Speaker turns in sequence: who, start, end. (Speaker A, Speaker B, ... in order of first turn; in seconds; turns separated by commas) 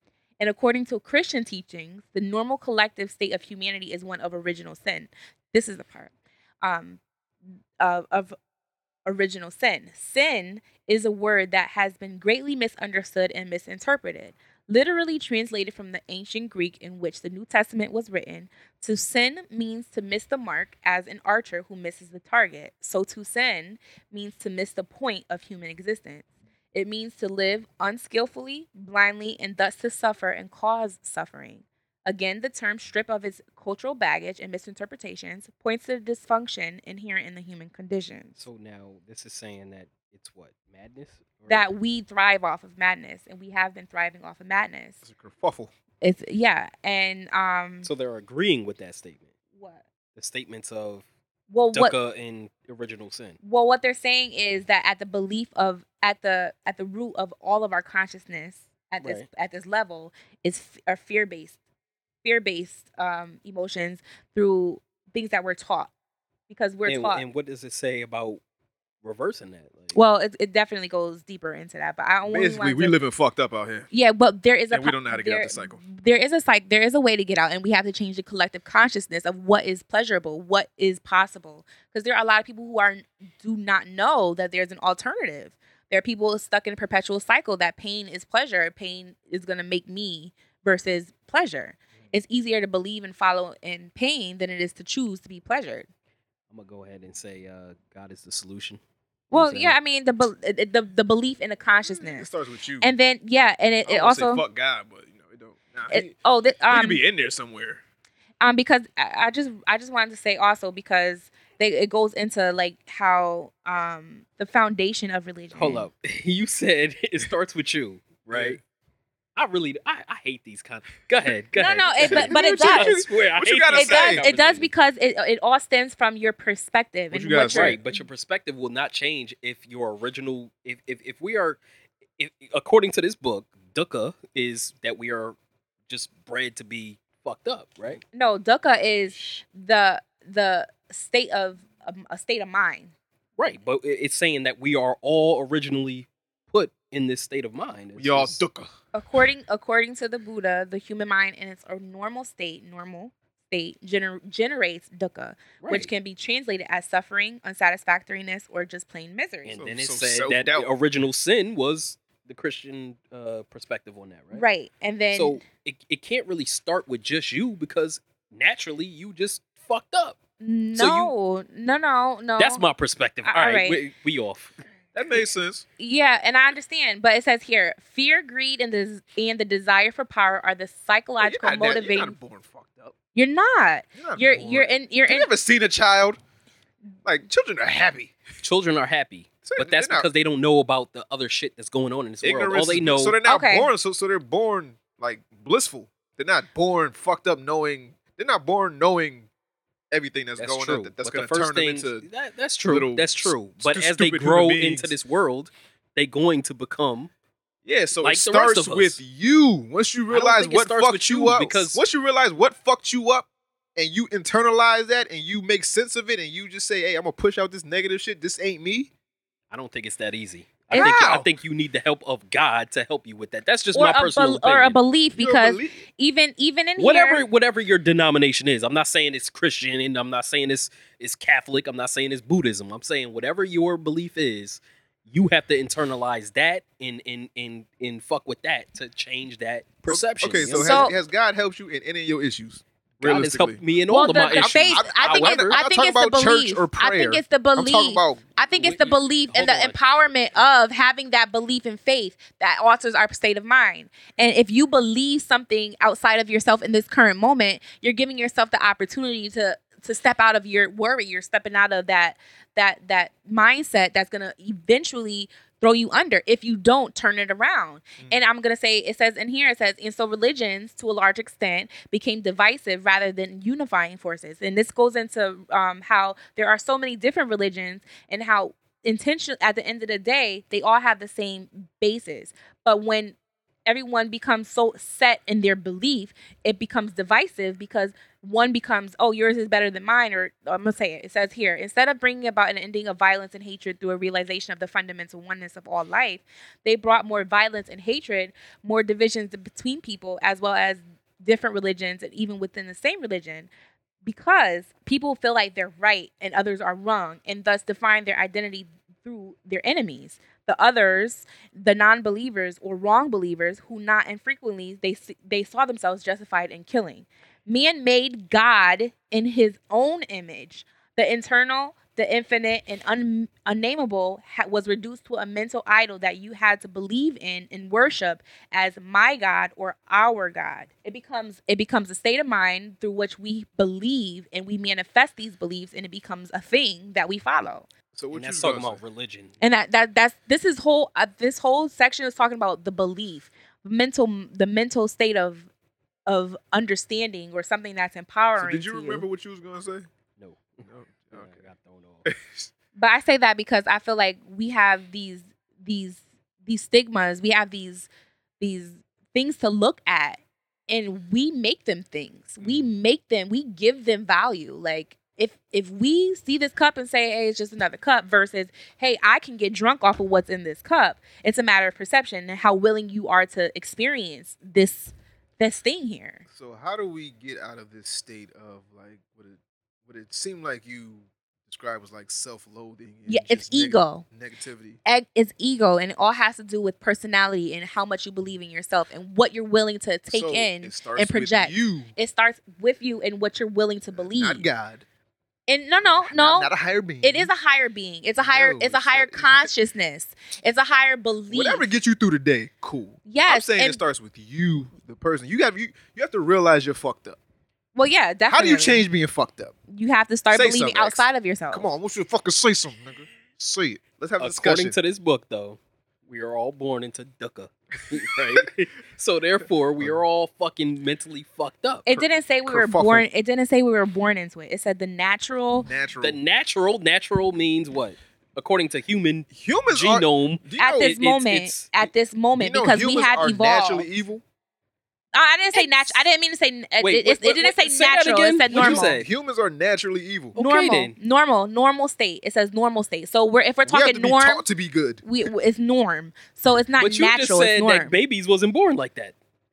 Speaker A: 0.4-7.0, Speaker A: 7.8-8.4, Speaker A: 9.1-38.4, Speaker B: 38.4-41.7, Speaker A: 41.5-45.0, Speaker C: 45.0-45.7, Speaker A: 46.0-47.9, Speaker B: 47.8-49.3, Speaker A: 49.6-49.8, Speaker B: 50.2-51.1, Speaker A: 51.5-52.0, Speaker B: 51.7-53.4, Speaker A: 53.4-61.6, Speaker B: 59.0-59.3, Speaker A: 62.2-65.9, Speaker A: 66.5-67.2, Speaker B: 66.9-68.4, Speaker B: 69.0-70.0, Speaker A: 69.9-73.0, Speaker C: 72.2-73.9, Speaker A: 73.9-95.9, Speaker C: 74.7-75.8, Speaker B: 96.5-98.8, Speaker B: 99.3-99.8, Speaker A: 99.3-102.3, Speaker C: 101.7-102.9, Speaker A: 102.8-104.4, Speaker C: 103.8-106.1, Speaker A: 105.9-107.0, Speaker C: 106.7-107.8, Speaker A: 108.4-115.9, Speaker B: 115.5-118.6, Speaker C: 118.3-118.6, Speaker B: 119.4-124.7, Speaker A: 121.6-122.9, Speaker C: 122.0-124.2, Speaker A: 123.7-128.0, Speaker C: 127.1-127.8, Speaker B: 127.5-131.6, Speaker B: 132.2-135.4, Speaker B: 135.9-138.0, Speaker A: 138.1-142.9, Speaker C: 139.2-139.4, Speaker B: 143.4-148.4, Speaker C: 147.9-148.7, Speaker A: 148.9-159.6, Speaker B: 155.6-155.9, Speaker B: 159.4-164.4, Speaker C: 159.6-160.7, Speaker A: 164.3-165.4, Speaker B: 165.1-170.2, Speaker A: 170.4-172.6, Speaker B: 170.8-171.1, Speaker B: 172.4-174.6, Speaker A: 173.2-173.8, Speaker C: 174.9-175.6, Speaker A: 175.8-182.2, Speaker C: 181.2-182.9, Speaker A: 183.1-185.3, Speaker C: 183.9-186.2, Speaker C: 187.1-188.2, Speaker B: 188.4-193.1, Speaker C: 189.4-190.1, Speaker C: 192.2-199.3, Speaker A: 193.2-193.7, Speaker C: 199.9-202.1, Speaker B: 200.4-207.1, Speaker C: 202.6-204.9, Speaker C: 207.6-218.9, Speaker B: 208.0-209.0, Speaker B: 210.1-211.8, Speaker B: 219.5-224.8, Speaker A: 220.7-221.0, Speaker C: 220.7-221.3, Speaker A: 223.7-227.2, Speaker C: 225.2-225.8, Speaker B: 226.8-240.9, Speaker C: 239.9-243.6, Speaker A: 240.5-240.9, Speaker B: 243.0-245.6, Speaker A: 243.9-303.5, Speaker C: 244.3-248.2, Speaker B: 248.6-249.8, Speaker C: 268.0-268.3, Speaker A: 304.0-337.7, Speaker C: 337.9-338.8, Speaker B: 338.1-339.4, Speaker A: 339.4-345.5, Speaker A: 346.1-349.1, Speaker C: 348.4-349.9, Speaker B: 350.2-352.1, Speaker C: 350.6-351.4, Speaker C: 352.1-352.5, Speaker A: 352.8-376.2, Speaker C: 362.4-362.7, Speaker C: 376.3-384.8, Speaker A: 383.1-384.1, Speaker A: 384.9-394.5, Speaker C: 390.1-391.9, Speaker C: 393.9-394.9, Speaker A: 395.5-396.5, Speaker C: 395.8-397.3, Speaker A: 397.0-401.7, Speaker C: 398.2-399.5, Speaker C: 401.3-407.2, Speaker A: 403.1-403.8, Speaker A: 407.7-408.8, Speaker C: 408.3-409.6, Speaker A: 409.7-411.7, Speaker C: 410.3-414.8, Speaker B: 414.2-421.9, Speaker A: 421.9-425.7, Speaker C: 422.4-423.1, Speaker C: 425.6-426.2, Speaker B: 426.0-431.7, Speaker C: 429.3-430.9, Speaker A: 430.6-433.9, Speaker C: 432.4-434.2, Speaker A: 435.1-439.0, Speaker B: 436.8-439.1, Speaker C: 438.5-440.4, Speaker B: 440.4-440.9, Speaker A: 440.4-444.4, Speaker C: 443.7-445.0, Speaker A: 445.0-447.9, Speaker B: 446.8-449.1